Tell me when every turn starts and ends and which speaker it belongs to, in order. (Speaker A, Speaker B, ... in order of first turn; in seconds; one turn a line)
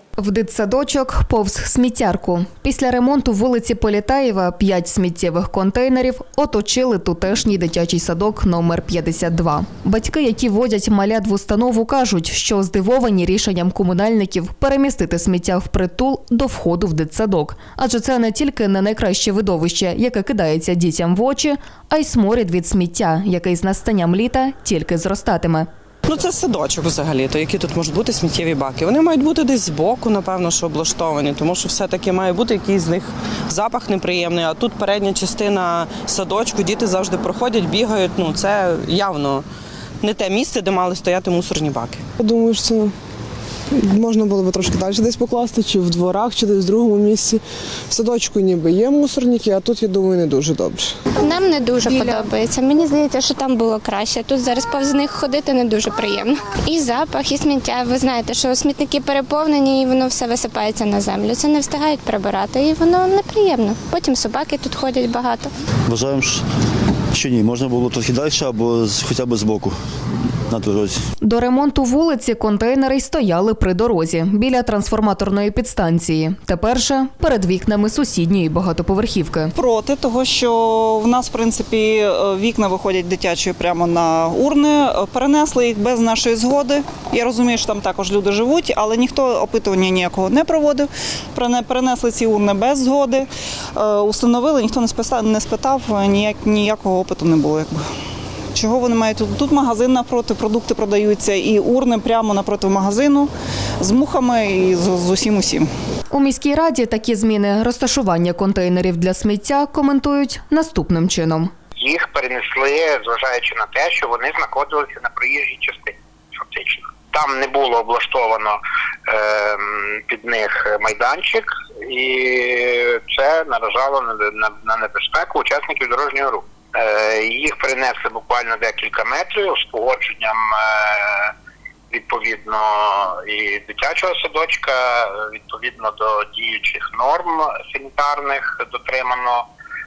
Speaker A: 0.2-25.7
Speaker B: 26.1-39.5
Speaker B: 40.0-42.0
Speaker C: 42.2-42.9
Speaker C: 43.7-51.0
Speaker D: 51.2-65.5
Speaker E: 65.9-66.4
Speaker E: 67.1-69.8
Speaker E: 70.5-71.0
Speaker A: 71.2-79.5
Speaker F: 79.6-97.8
Speaker F: 98.5-105.7
Speaker A: 106.1-111.5
Speaker G: 111.8-118.6
Speaker G: 119.1-131.3
Speaker G: 131.9-139.4